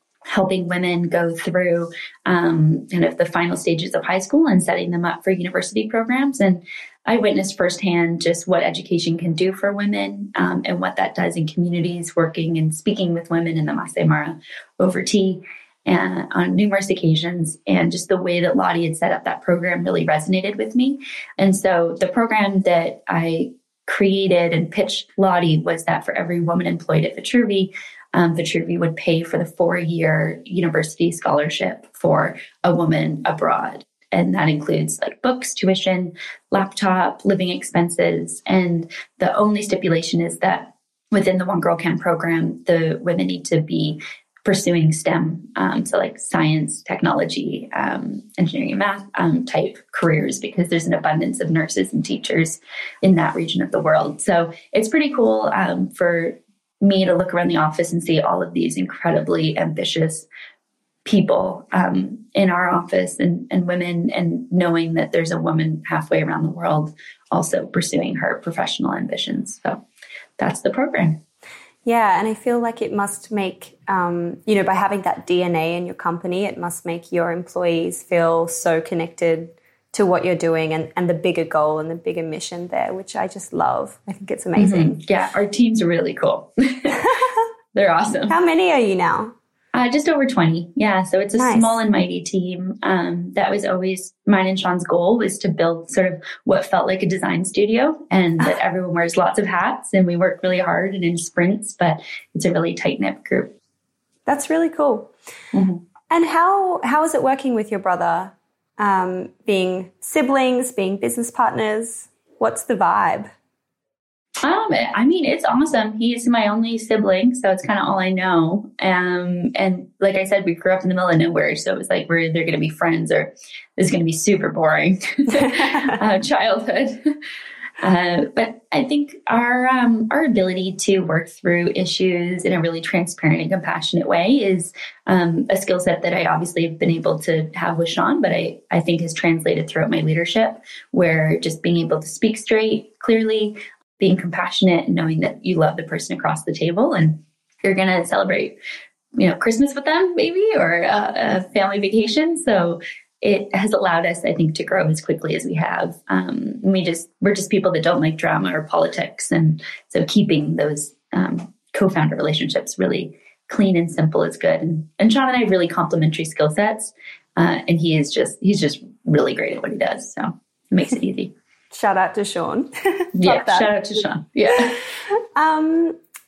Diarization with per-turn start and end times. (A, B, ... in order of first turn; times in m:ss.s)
0:00.3-1:00.2 A
1:01.0-1:09.8 A
1:10.4-1:11.2 A
1:11.8-1:25.0 B
1:24.6-1:27.1 A
1:27.7-1:28.3 A
1:28.3-1:29.3 B
1:29.7-1:43.5 A
1:31.3-1:31.8 B
1:44.2-1:45.1 B
1:45.5-1:45.8 A
1:46.1-1:53.3 B
1:54.4-2:07.2 A
2:07.8-2:28.6 A
2:29.2-2:51.3 A
2:51.7-2:53.7 B
2:53.2-2:54.8 A
2:55.3-2:56.0 B